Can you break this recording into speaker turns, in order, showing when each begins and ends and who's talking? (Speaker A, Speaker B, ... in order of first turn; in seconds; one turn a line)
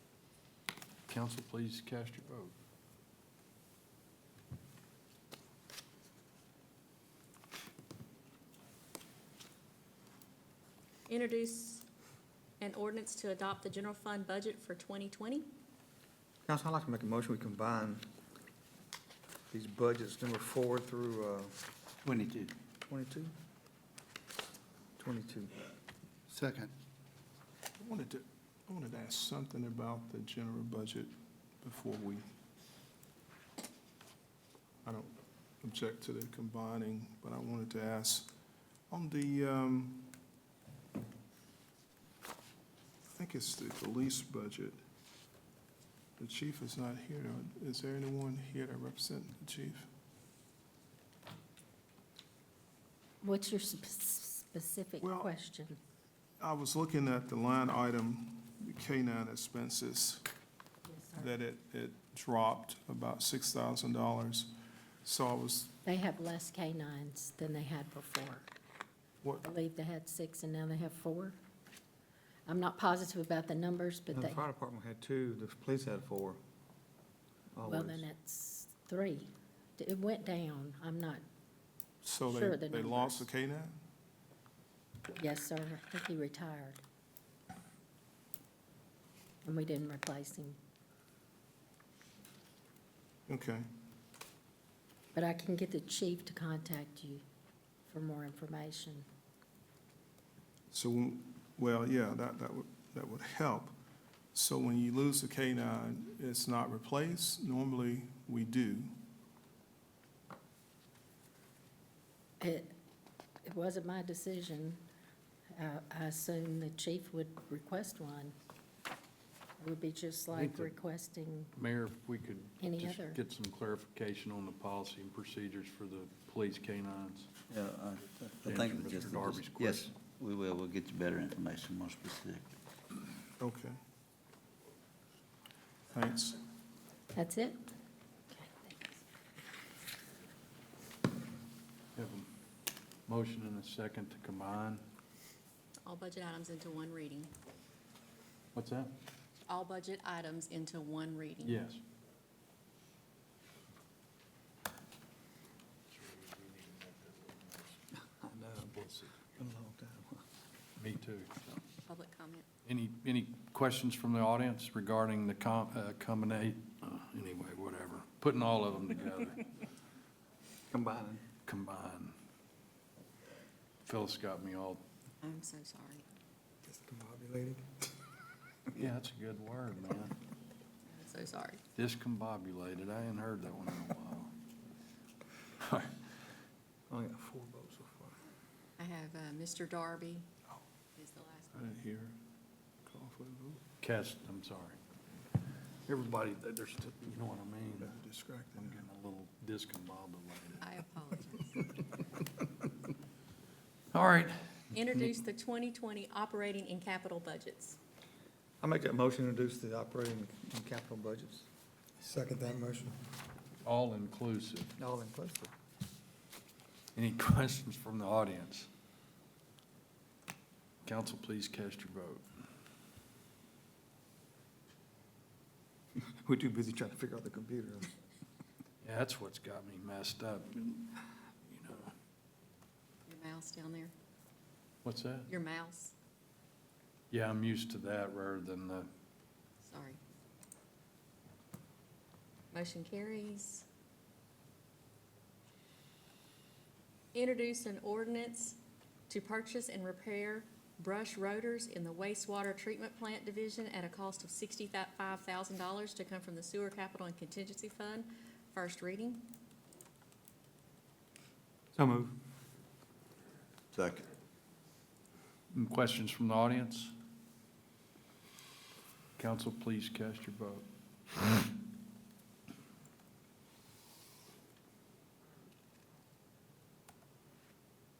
Speaker A: 1.1-2.5
Speaker B: 11.1-11.8
Speaker B: 12.6-15.5
Speaker C: 16.4-18.0
Speaker C: 19.5-21.6
Speaker D: 22.0-22.5
Speaker C: 22.9-23.3
Speaker C: 25.0-25.5
Speaker D: 26.3-26.7
Speaker E: 27.8-32.3
Speaker E: 34.8-38.3
Speaker E: 38.9-40.1
Speaker E: 43.1-44.8
Speaker E: 46.2-49.9
Speaker F: 53.2-55.8
Speaker E: 55.0-55.3
Speaker E: 56.4-60.2
Speaker F: 60.9-61.3
Speaker E: 61.1-64.5
Speaker E: 65.0-65.7
Speaker F: 65.8-68.5
Speaker E: 69.2-69.5
Speaker F: 69.4-71.3
Speaker F: 72.5-74.4
Speaker C: 74.1-76.4
Speaker C: 77.5-78.0
Speaker F: 77.6-81.2
Speaker E: 82.0-83.7
Speaker F: 82.3-83.2
Speaker F: 85.1-86.8
Speaker F: 89.4-90.6
Speaker E: 93.3-93.7
Speaker F: 95.1-97.2
Speaker F: 97.9-99.0
Speaker E: 100.7-103.7
Speaker E: 104.3-108.9
Speaker F: 112.4-112.7
Speaker F: 113.4-114.8
Speaker F: 115.5-118.3
Speaker F: 119.6-121.5
Speaker A: 120.3-120.7
Speaker A: 121.5-127.3
Speaker F: 122.6-123.2
Speaker D: 127.5-132.5
Speaker A: 128.4-129.9
Speaker E: 133.4-133.8
Speaker E: 135.9-136.4
Speaker F: 137.1-137.6
Speaker F: 138.3-139.0
Speaker A: 141.9-142.3
Speaker A: 143.1-144.8
Speaker B: 145.8-147.3
Speaker A: 148.5-148.9
Speaker B: 149.5-151.5
Speaker A: 151.4-151.8
Speaker A: 155.9-157.8
Speaker C: 158.2-158.7
Speaker A: 158.5-159.3
Speaker C: 159.4-160.2
Speaker A: 160.8-161.6
Speaker B: 161.9-162.5
Speaker A: 162.6-169.4
Speaker C: 170.7-171.2
Speaker A: 171.4-172.1
Speaker A: 173.8-174.8
Speaker B: 175.2-176.0
Speaker C: 176.7-177.7
Speaker A: 178.7-180.1
Speaker B: 180.9-181.6
Speaker A: 181.7-184.3
Speaker A: 185.6-185.9
Speaker C: 186.9-188.2
Speaker B: 188.8-190.3
Speaker B: 190.9-191.5
Speaker E: 191.5-192.2
Speaker E: 192.8-193.6
Speaker A: 193.8-194.8
Speaker A: 195.9-197.9
Speaker E: 197.8-198.8
Speaker A: 198.6-200.6
Speaker B: 200.6-201.6
Speaker A: 203.9-205.2
Speaker B: 204.7-207.8
Speaker C: 208.6-211.5
Speaker C: 212.0-213.0
Speaker A: 213.6-214.7
Speaker C: 214.8-215.5
Speaker A: 216.9-218.7
Speaker A: 220.8-222.2
Speaker C: 226.0-227.9
Speaker A: 228.8-231.9
Speaker B: 233.1-233.9
Speaker A: 234.8-235.3
Speaker B: 235.3-235.9
Speaker A: 237.1-238.9
Speaker B: 239.6-240.0
Speaker B: 242.5-243.7
Speaker B: 247.1-248.6
Speaker B: 249.1-259.3
Speaker C: 261.7-262.1
Speaker D: 263.7-264.1
Speaker A: 265.5-266.9
Speaker A: 269.2-270.6